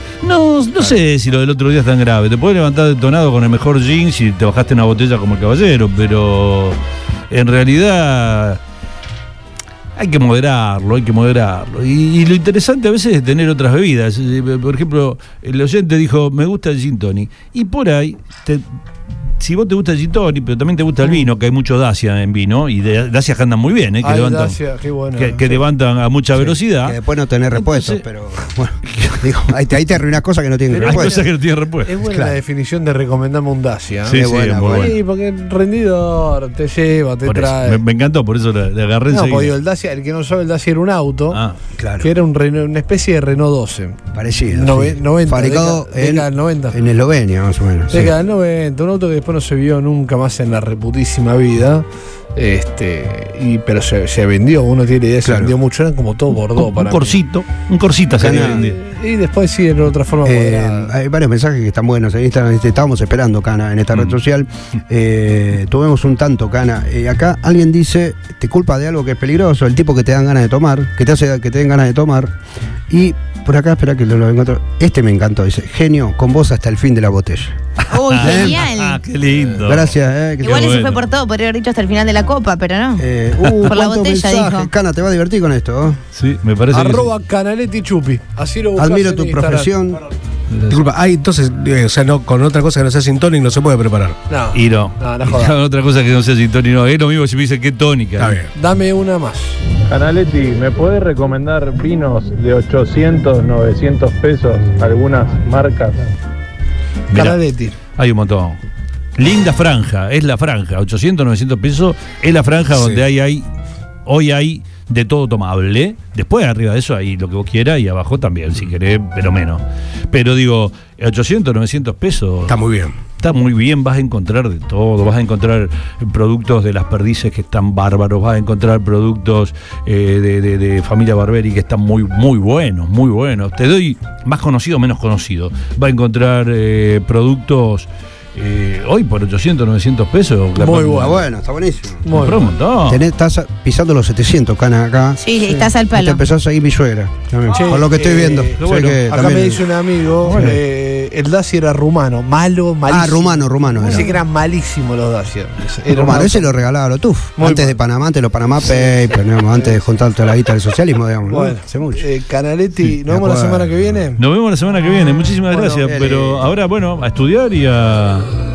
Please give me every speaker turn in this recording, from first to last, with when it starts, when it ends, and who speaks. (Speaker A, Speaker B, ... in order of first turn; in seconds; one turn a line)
Speaker A: 0.2-6.8
Speaker A: 7.3-8.6
Speaker A: 9.9-18.6
Speaker A: 19.4-24.6
Speaker B: 24.0-25.6
Speaker A: 25.1-27.0
Speaker C: 26.4-31.2
Speaker A: 27.5-28.0
Speaker B: 30.7-31.3
Speaker A: 30.8-31.9
Speaker B: 31.8-37.8
Speaker C: 32.0-32.4
Speaker A: 34.0-35.0
Speaker C: 34.1-34.9
Speaker A: 37.2-39.5
Speaker B: 39.1-41.4
Speaker C: 41.8-42.1
Speaker B: 42.0-44.0
Speaker C: 44.1-48.1
Speaker B: 44.5-46.8
Speaker B: 47.9-57.2
Speaker C: 55.2-55.5
Speaker A: 56.5-58.8
Speaker C: 58.2-58.6
Speaker B: 58.4-60.9
Speaker C: 60.2-72.3
Speaker C: 72.9-77.5
Speaker D: 77.9-79.0
Speaker A: 78.0-81.0
Speaker C: 78.2-78.6
Speaker C: 79.6-80.8
Speaker D: 80.4-84.7
Speaker C: 83.0-86.0
Speaker A: 86.1-87.1
Speaker B: 86.7-89.7
Speaker C: 88.8-90.0
Speaker A: 90.5-90.8
Speaker E: 90.7-94.2
Speaker B: 94.3-95.5
Speaker A: 94.5-98.4
Speaker E: 98.2-98.5
Speaker B: 98.5-99.6
Speaker F: 99.9-106.0
Speaker A: 107.1-107.4
Speaker B: 107.1-107.8
Speaker A: 108.0-108.6
Speaker A: 109.2-113.5
Speaker E: 112.7-113.0
Speaker A: 114.0-122.6
Speaker E: 122.5-122.9
Speaker A: 123.2-141.2
Speaker B: 140.6-141.1
Speaker C: 140.8-142.0
Speaker B: 142.0-142.5
Speaker A: 142.1-143.0
Speaker C: 142.8-149.6
Speaker D: 145.2-146.2
Speaker B: 147.5-156.6
Speaker A: 148.6-149.1
Speaker A: 150.2-150.6
Speaker C: 150.3-150.6
Speaker C: 152.9-154.1
Speaker C: 155.9-162.0
Speaker B: 157.4-157.8
Speaker B: 158.6-159.8
Speaker B: 161.3-164.2
Speaker C: 163.1-163.9
Speaker A: 164.2-168.3
Speaker B: 165.5-165.9
Speaker C: 165.8-166.5